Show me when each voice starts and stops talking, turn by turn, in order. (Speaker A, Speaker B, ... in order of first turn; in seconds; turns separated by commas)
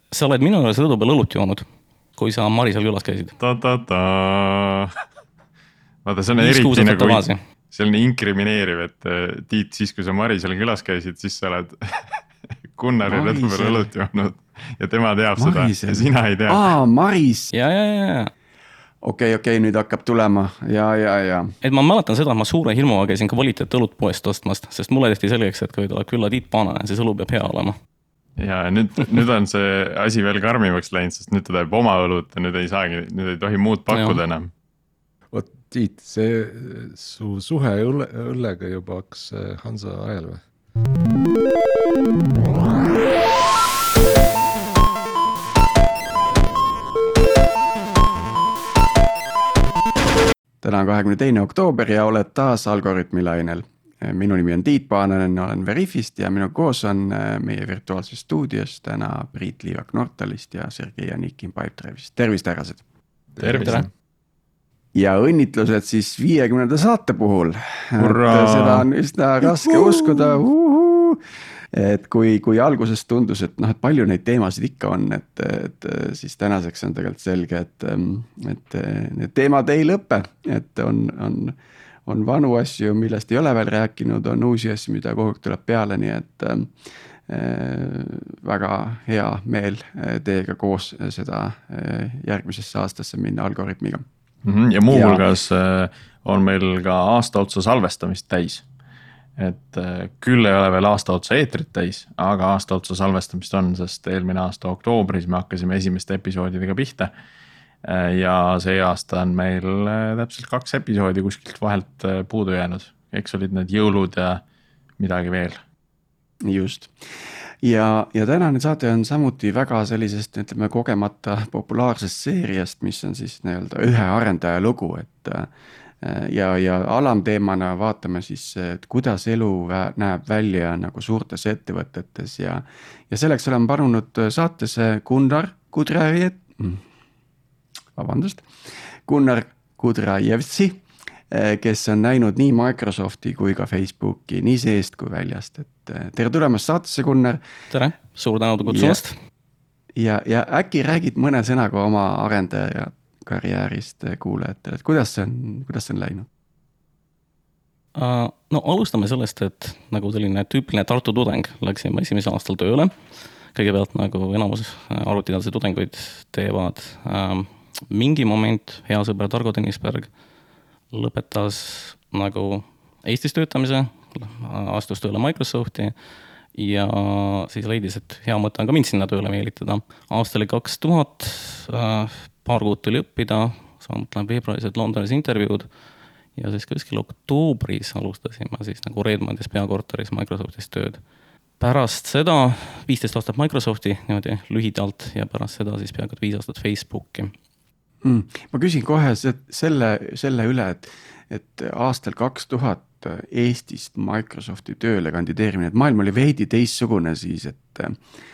Speaker A: 0.1-1.7, Speaker A: 2.2-3.3, Speaker B: 3.4-4.9, Speaker B: 6.0-16.7, Speaker A: 6.4-7.4, Speaker C: 13.0-13.9, Speaker C: 15.4-17.5, Speaker A: 17.5-18.3, Speaker C: 19.0-21.5, Speaker A: 21.6-27.8, Speaker B: 28.4-34.5, Speaker A: 33.9-34.2, Speaker D: 35.3-40.4, Speaker C: 50.6-62.8, Speaker D: 63.4-63.8, Speaker B: 63.4-63.9, Speaker A: 63.5-63.8, Speaker C: 65.0-71.2, Speaker B: 68.0-68.9, Speaker C: 71.7-86.7, Speaker C: 87.3-94.0, Speaker B: 94.4-98.7, Speaker C: 94.9-95.2, Speaker B: 99.4-107.1, Speaker B: 107.8-114.4, Speaker B: 115.0-115.6, Speaker C: 116.4-116.9, Speaker C: 117.6-125.5, Speaker C: 126.0-136.8, Speaker C: 138.0-138.5, Speaker C: 139.1-147.4, Speaker A: 147.7-149.2, Speaker C: 148.7-149.0, Speaker C: 150.0-156.3, Speaker A: 158.0-162.9, Speaker A: 163.5-170.1, Speaker A: 170.9-175.9, Speaker A: 176.6-185.7, Speaker A: 186.4-191.0, Speaker A: 191.6-197.3, Speaker C: 198.0-208.0